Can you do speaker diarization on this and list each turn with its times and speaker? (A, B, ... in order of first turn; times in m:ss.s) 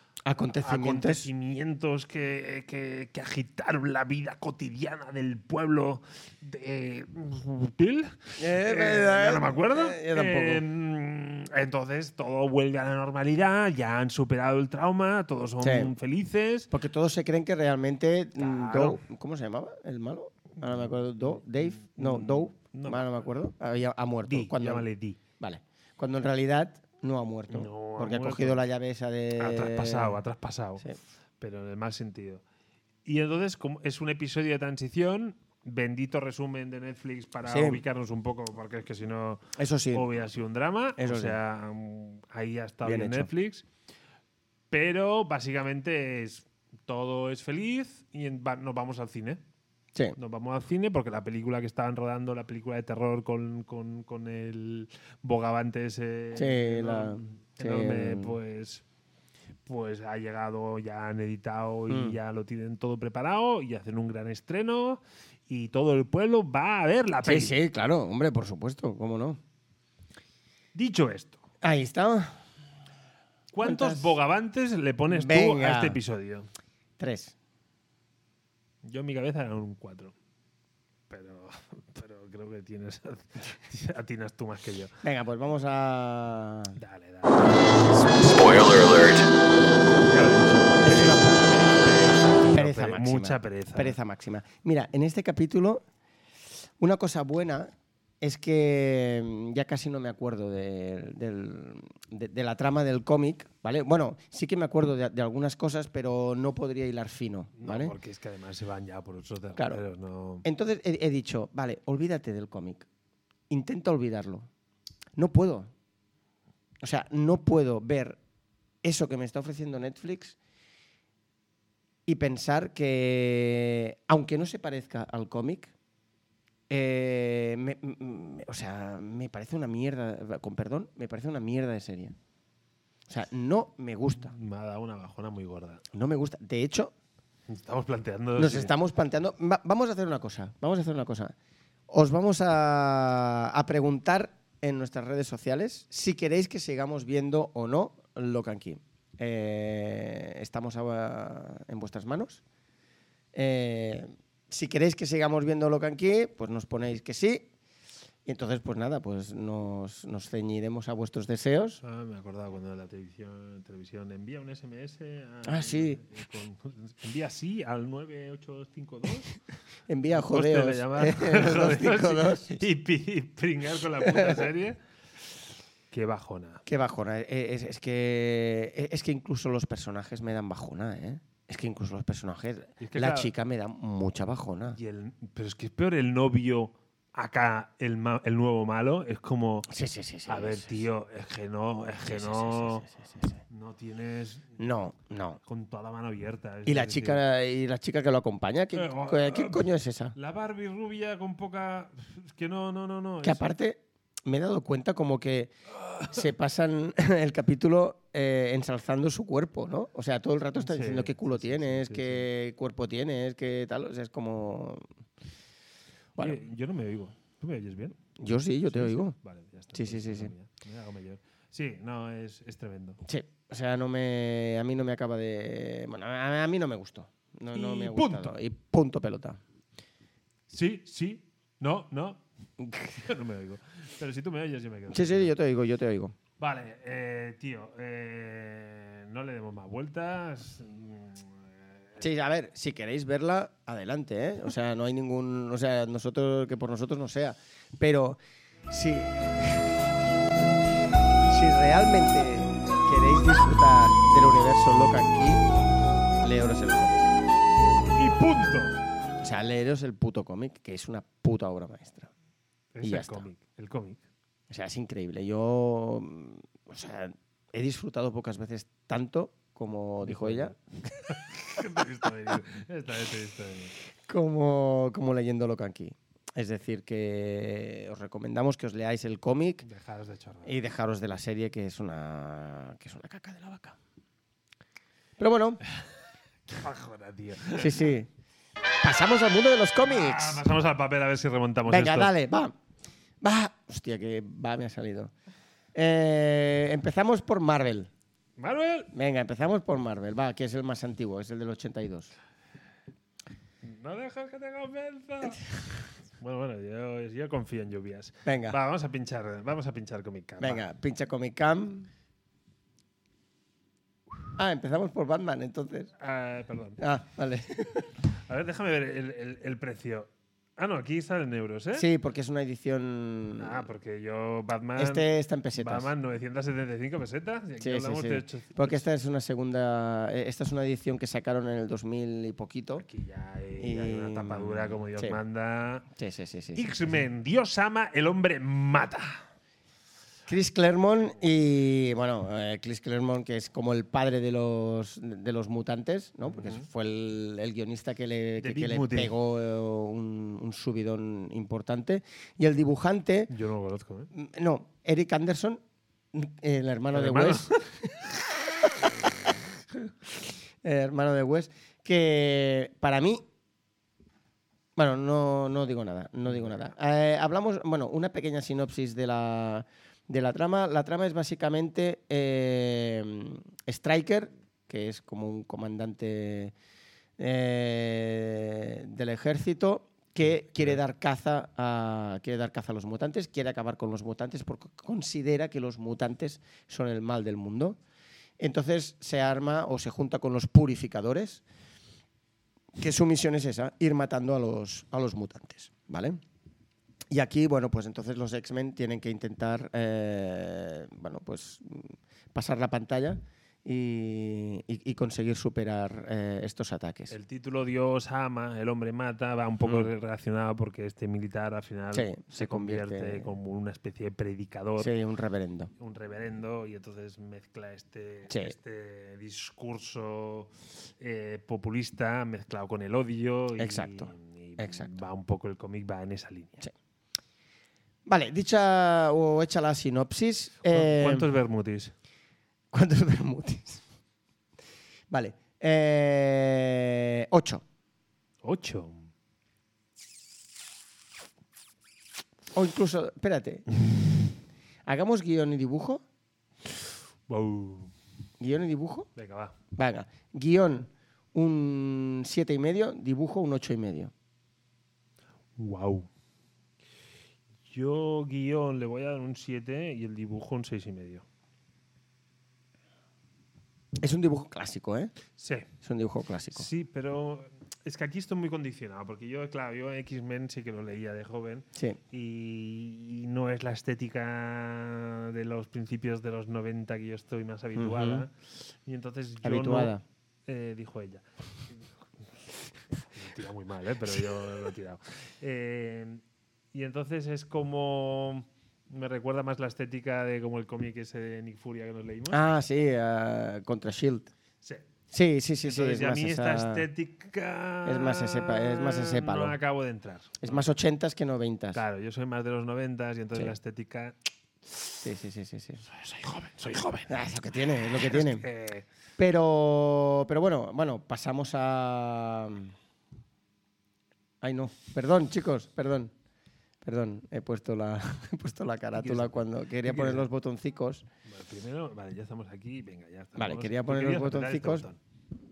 0:00.2-0:01.3 A
0:00.6-0:16.7 B
0:08.4-0:10.6 A
0:15.6-0:15.9 A
0:16.7-0:24.8 A
0:18.4-0:19.0 B
0:20.6-0:20.9 B
0:21.6-0:23.1 B
0:24.2-0:25.2 B
0:25.4-0:30.2 A
0:27.5-0:28.6 B
0:29.4-0:32.4 B
0:33.0-0:43.6 B
0:37.4-0:37.8 A
0:39.6-0:40.1 A
0:41.0-0:41.4 A
0:42.8-0:43.3 A
0:44.7-0:49.4 B
0:50.2-0:58.8 B
0:56.3-0:58.4 A
0:59.6-1:07.5 B
1:01.9-1:02.2 A
1:07.2-1:09.4 A
1:10.7-1:11.4 B
1:11.6-1:12.4 A
1:13.5-1:16.5 B
1:13.6-1:14.2 A
1:15.1-1:16.0 A
1:17.0-1:17.3 A
1:18.8-1:20.1 B
1:21.1-1:25.0 B
1:25.0-1:26.8 A
1:26.8-1:29.2 B
1:30.0-1:33.9 B
1:30.8-1:35.8 A
1:36.8-1:47.9 A
1:47.6-1:50.4 B
1:49.6-1:49.8 A
1:50.4-1:52.8 A
1:53.5-1:54.5 A
1:55.2-1:55.7 A
1:56.8-1:58.2 A
1:58.8-2:00.4 A
2:02.1-2:05.7 A
2:06.7-2:12.1 A
2:13.1-2:14.3 A
2:14.2-2:15.8 B
2:15.9-2:16.9 A
2:17.5-2:18.7 B
2:18.4-2:21.3 A
2:21.9-2:32.4 A
2:33.3-2:37.5 A
2:38.2-2:41.8 A
2:41.8-2:49.4 B
2:45.4-2:46.0 A
2:49.9-2:52.6 A
2:50.1-2:54.8 B
2:54.0-2:54.5 A
2:55.9-2:56.6 B
2:56.6-3:04.8 A
3:02.8-3:03.3 B
3:04.7-3:09.7 B
3:09.7-3:10.7 A
3:10.3-3:12.8 B
3:12.0-3:13.4 A
3:13.5-3:14.6 B
3:14.6-3:15.4 A
3:15.4-3:17.2 B
3:16.6-3:20.1 A
3:18.7-3:23.4 B
3:23.2-3:25.5 A
3:25.8-3:26.1 B
3:26.1-3:34.8 A
3:30.6-3:32.3 B
3:36.2-3:38.0 B
3:38.2-3:39.2 A
3:38.6-3:43.0 B
3:39.7-3:40.3 A
3:43.0-3:49.4 A
3:47.5-3:48.3 B
3:50.5-3:52.2 B
3:52.6-3:53.0 A
3:53.0-3:55.3 B
3:54.9-3:56.1 A
3:56.4-4:02.0 B
4:02.0-4:09.8 A
4:11.2-4:15.4 A
4:16.2-4:17.1 A
4:18.0-4:18.8 B
4:19.2-4:22.1 A
4:22.7-4:24.0 B
4:22.8-4:23.2 A
4:24.5-4:30.5 A
4:30.0-4:33.7 B
4:34.1-4:39.6 A
4:39.6-4:40.5 B
4:40.4-4:43.8 A
4:45.2-4:45.6 A
4:46.5-4:47.9 B
4:47.5-4:48.1 A
4:48.8-4:50.4 A
4:49.8-4:52.1 B
4:51.6-4:52.5 A
4:53.2-4:55.1 A
4:55.7-4:57.9 A
4:58.4-4:58.9 B
4:58.9-5:02.1 A
5:03.6-5:05.5 B
5:06.1-5:10.6 B
5:08.2-5:08.6 A
5:10.4-5:11.9 A
5:14.4-5:15.9 A
5:16.0-5:16.8 B
5:16.8-5:17.9 A
5:18.2-5:21.9 B
5:21.7-5:23.6 A
5:23.4-5:25.0 B
5:24.8-5:25.9 A
5:25.6-5:28.8 B
5:27.6-5:32.8 A
5:32.8-5:35.8 B
5:33.6-5:35.2 A
5:36.0-5:36.6 A
5:36.5-5:39.2 B
5:40.3-5:53.3 A
5:46.3-5:46.6 B
5:48.4-5:49.1 B
5:53.3-5:54.1 B
5:54.1-5:55.6 A
5:56.1-5:59.0 A
5:56.9-5:57.6 B
5:59.7-6:03.2 A
6:04.8-6:16.5 A
6:17.2-6:27.8 A
6:28.4-6:31.4 A
6:32.8-6:36.2 A
6:37.1-6:47.1 A
6:47.1-6:54.9 B
6:49.6-6:49.9 A
6:51.9-6:53.3 A
6:54.8-6:55.7 A
6:55.8-7:06.6 B
6:58.3-6:58.5 A
7:03.6-7:04.9 A
7:08.0-7:11.3 A
7:10.6-7:11.9 B
7:12.7-7:13.8 A
7:15.1-7:17.6 A
7:18.4-7:19.1 B
7:22.5-7:23.6 A
7:24.8-7:26.0 A
7:27.3-7:27.9 B
7:28.4-7:29.1 A
7:29.2-7:29.5 B
7:29.7-7:34.1 A
7:35.6-7:36.1 B
7:37.6-7:41.2 B
7:44.0-7:45.1 A
7:45.4-7:45.7 B
7:45.8-7:46.7 A
7:46.5-7:59.9 B
7:57.8-7:58.2 A
7:59.4-8:00.0 A
8:00.5-8:01.2 B
8:03.1-8:06.2 B
8:06.7-8:12.5 B
8:12.3-8:14.3 A
8:14.6-8:14.9 B
8:15.1-8:16.8 A
8:15.6-8:20.7 B
8:17.8-8:19.6 A
8:20.4-8:21.8 A
8:21.7-8:24.2 B
8:25.0-8:25.8 A
8:25.9-8:27.2 B
8:27.1-8:28.4 A
8:28.0-8:28.8 B
8:29.2-8:32.7 A
8:34.4-8:36.1 A
8:36.8-8:41.0 A
8:38.9-8:40.3 B
8:41.2-8:45.0 B
8:43.4-8:44.8 A